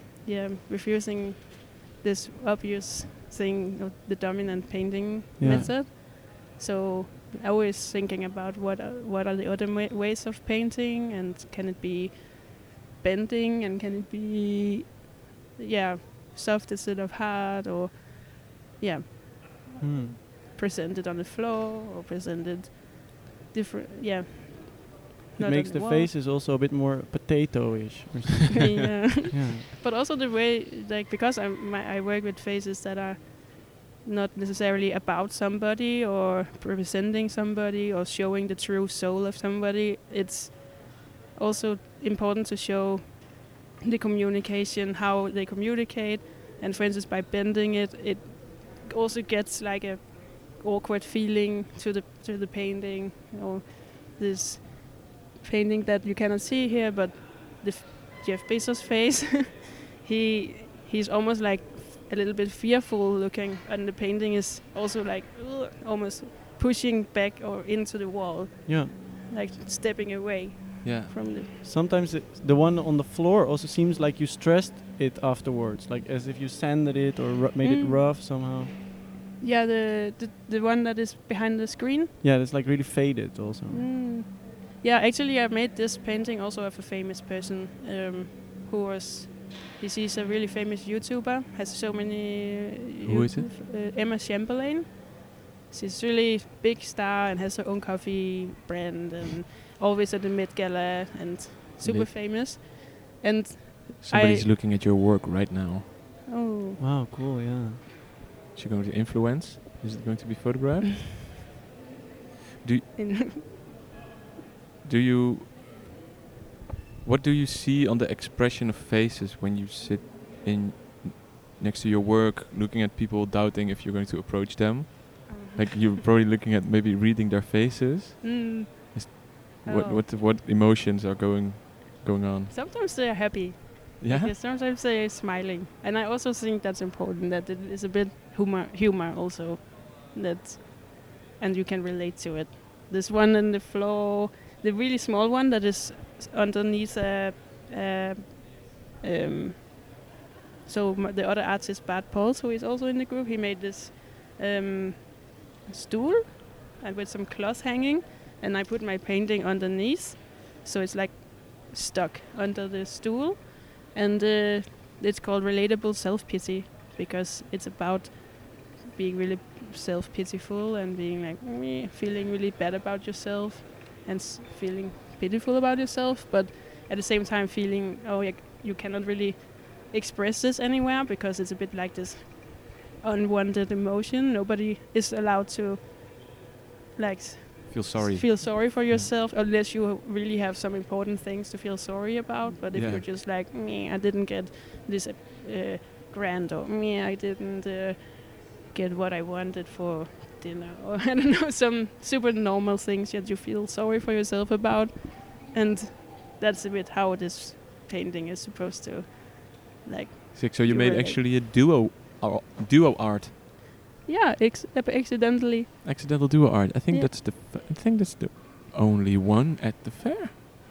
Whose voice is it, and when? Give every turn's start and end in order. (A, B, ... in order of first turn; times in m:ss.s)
0:00.2-0:26.1 A
0:05.4-0:05.7 B
0:05.4-0:05.7 C
0:19.8-0:20.2 B
0:25.4-0:29.7 B
0:28.6-1:11.5 A
1:08.7-1:08.9 B
1:10.8-1:11.2 C
1:11.6-1:18.7 B
1:17.6-1:18.0 A
1:19.4-1:22.2 A
1:22.2-1:23.9 B
1:23.7-1:44.5 A
1:33.0-1:33.5 C
1:41.8-1:42.1 C
1:44.0-1:45.9 C
1:46.3-1:46.8 A
1:46.8-1:47.8 B
1:48.6-1:51.0 C
1:52.6-1:52.9 C
1:53.0-1:53.4 A
1:54.8-1:55.6 C
1:57.0-2:12.5 C
2:05.3-2:05.9 A
2:08.2-2:10.1 A
2:12.5-2:29.9 A
2:14.0-2:14.3 C
2:30.6-3:06.4 A
3:07.0-3:31.2 A
3:07.7-3:09.1 C
3:12.7-3:13.1 C
3:30.4-3:33.4 C
3:34.1-3:36.0 A
3:35.8-3:40.3 C